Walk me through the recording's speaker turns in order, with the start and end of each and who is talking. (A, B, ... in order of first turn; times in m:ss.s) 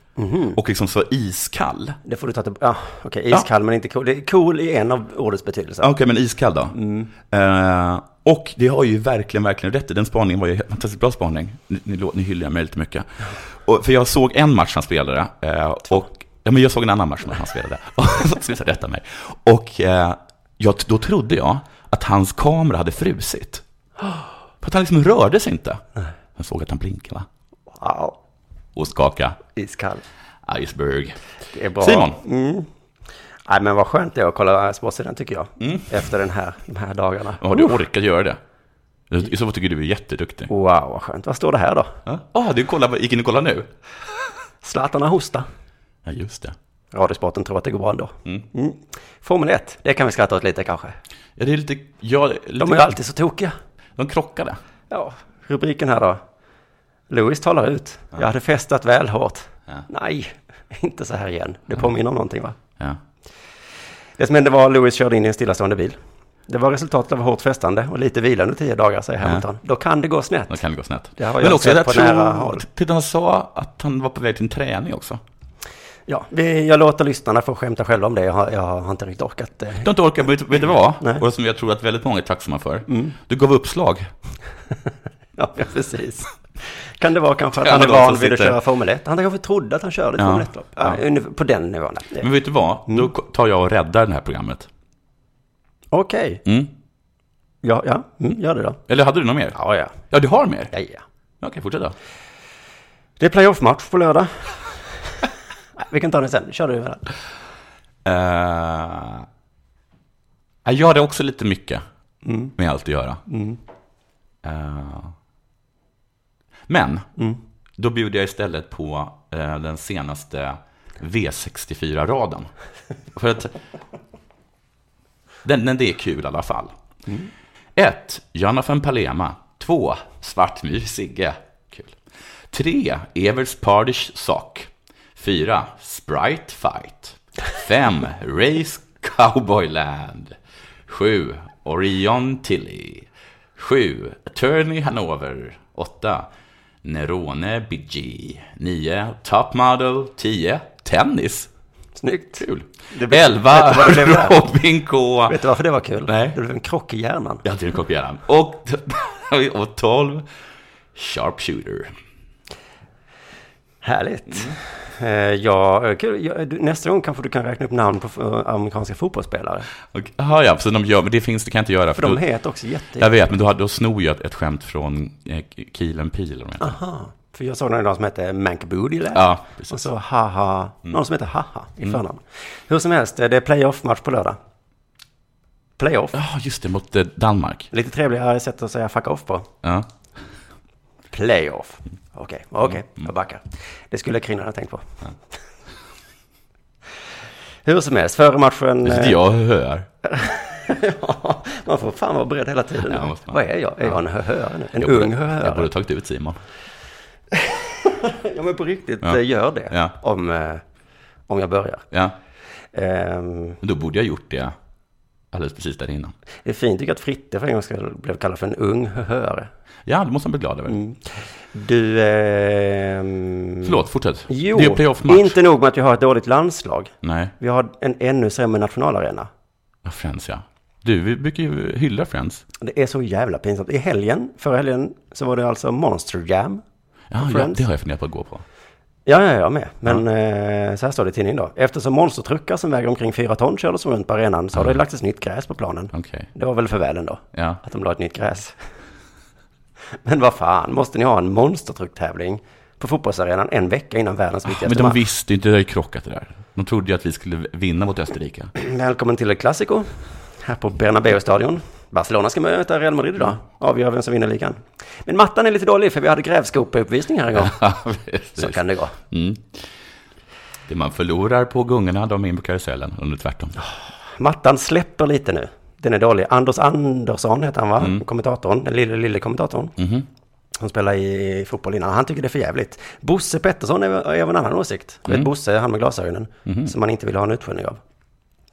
0:00.2-0:00.6 A
0:00.5-0:02.0 B
0:02.0-0:05.9 A
0:05.8-0:23.6 B
0:06.7-0:07.1 A
0:24.6-0:25.8 B
0:26.4-0:27.3 B
0:27.7-0:28.2 A
0:28.7-0:29.4 B
0:29.5-0:30.0 A
0:30.4-0:31.2 B
0:31.5-0:32.7 A
0:31.8-0:32.2 B
0:33.5-0:37.8 A
0:35.6-0:35.9 B
0:37.4-0:38.4 B
0:39.1-0:40.5 B
0:40.5-0:42.0 A
0:42.0-0:43.7 B
0:44.6-0:45.5 A
0:46.0-0:46.6 B
0:46.9-0:51.0 A
0:51.4-0:52.9 B
0:52.6-0:53.5 A
0:54.0-0:54.6 B
0:54.9-0:56.2 A
0:57.1-1:02.6 A
1:04.2-1:06.0 A
1:06.5-1:10.6 A
1:10.5-1:15.2 B
1:11.2-1:12.6 A
1:16.1-1:19.9 A
1:19.8-1:24.1 B
1:22.9-1:23.2 A
1:25.4-1:32.3 A
1:27.6-1:28.6 B
1:30.2-1:31.0 B
1:32.2-1:34.7 B
1:35.9-1:36.4 A
1:36.4-1:36.7 B
1:37.6-1:38.8 A
1:38.9-1:40.7 B
1:39.5-1:39.9 A
1:40.7-1:41.0 A
1:41.4-1:41.9 B
1:43.2-1:47.1 A
1:48.0-1:49.2 B
1:50.6-1:51.8 B
1:52.2-1:52.5 A
1:52.6-1:53.2 B
1:53.3-1:53.6 A
1:54.4-1:55.1 B
1:56.7-1:57.1 B
1:57.8-2:02.5 B
2:03.1-2:03.5 B
2:05.4-2:06.7 B
2:07.8-2:12.0 B
2:12.5-2:26.3 B
2:26.8-2:31.5 B
2:32.0-2:34.4 A
2:32.4-2:35.4 B
2:35.3-2:37.4 A
2:36.1-2:36.3 B
2:37.4-2:40.2 B
2:40.9-2:41.9 B
2:43.8-2:49.7 A
2:49.9-2:52.2 B
2:52.0-2:53.1 A
2:53.0-2:56.7 B
2:56.6-3:04.4 A
2:59.1-2:59.8 B
3:05.8-3:06.2 A
3:06.1-3:07.7 B
3:07.7-3:09.5 A
3:11.1-3:15.0 A
3:17.6-3:19.2 A
3:18.8-3:19.9 B
3:20.0-3:25.7 A
3:22.8-3:24.0 B
3:24.8-3:26.4 B
3:27.3-3:30.6 A
3:29.0-3:29.9 B
3:31.3-3:31.8 A
3:32.7-3:33.6 A
3:33.6-3:34.5 B
3:35.3-3:36.1 B
3:36.4-3:39.5 A
3:39.8-3:40.8 B
3:40.7-3:49.3 A
3:43.6-3:45.4 B
3:47.0-3:47.3 B
3:49.8-3:52.4 B
3:52.6-3:56.6 A
3:57.1-3:58.4 B
3:57.2-3:57.6 A
3:59.0-4:08.6 A
4:05.9-4:06.3 B
4:07.3-4:07.6 B
4:10.0-4:15.0 A
4:14.5-4:18.5 B
4:18.6-4:27.6 A
4:27.3-4:28.6 B
4:28.4-4:29.0 A
4:29.1-4:29.7 B
4:30.7-4:33.6 B
4:33.6-4:39.8 A
4:39.8-4:40.0 B
4:40.6-4:47.8 A
4:46.4-4:46.7 B